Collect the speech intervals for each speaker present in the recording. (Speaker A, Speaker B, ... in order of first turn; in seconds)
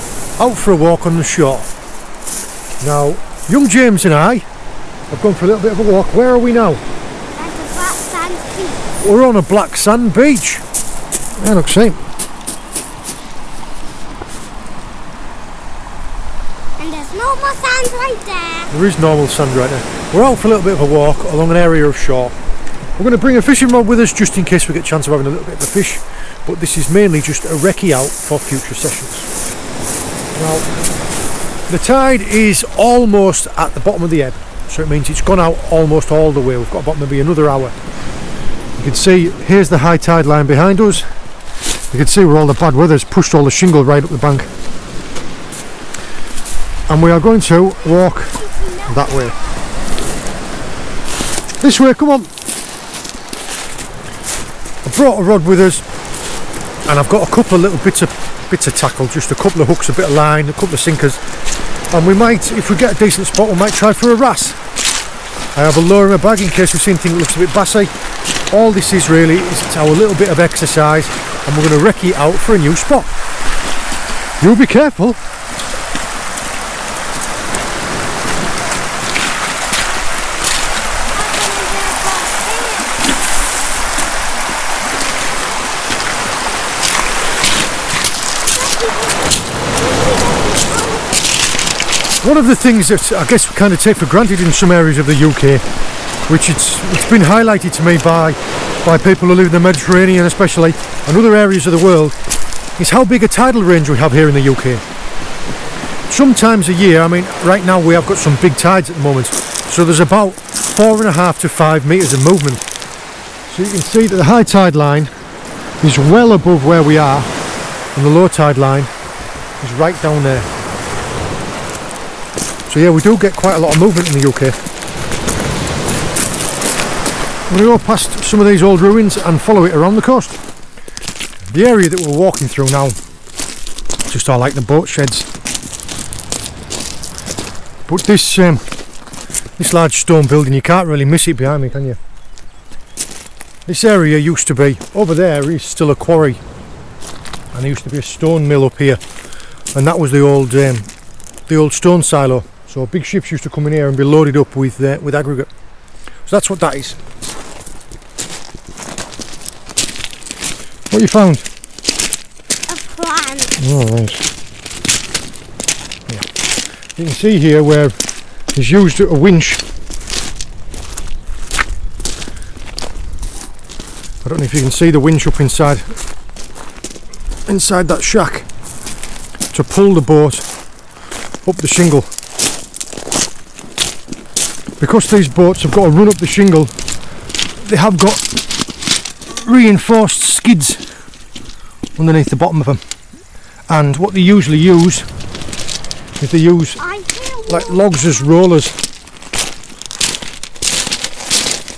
Speaker A: 0.4-1.7, 2.8-4.4, 5.1-6.8, 9.0-10.6, 11.4-12.0, 18.7-22.3, 23.0-29.3, 30.3-30.7, 31.7-37.7, 38.8-41.1, 41.9-44.5, 46.9-49.3, 51.6-52.3, 54.8-55.8, 56.9-61.2, 61.9-64.6, 65.5-67.9, 68.5-73.1, 74.4-75.2, 92.2-95.6, 96.3-102.1, 102.8-104.8, 106.1-112.6, 113.5-115.1, 115.8-117.3, 117.9-118.9, 119.6-120.5, 122.7-124.6, 127.5-130.3, 131.5-133.0, 134.1-135.2, 137.9-138.6, 139.6-142.0, 143.7-146.4, 147.5-149.0, 149.8-150.9, 151.5-155.5, 156.3-157.0, 160.9-161.5, 163.6-164.2, 167.0-167.9, 168.5-169.6, 174.2-175.8, 177.5-178.5, 179.5-180.5, 181.4-182.1, 184.8-186.7, 187.6-188.2, 189.3-190.8, 192.0-192.8, 193.7-195.1, 196.2-196.8, 197.5-198.8
Speaker B: 7.3-8.9, 16.8-18.7, 47.8-49.7, 81.1-83.2, 88.4-91.5, 162.7-163.8, 196.8-198.4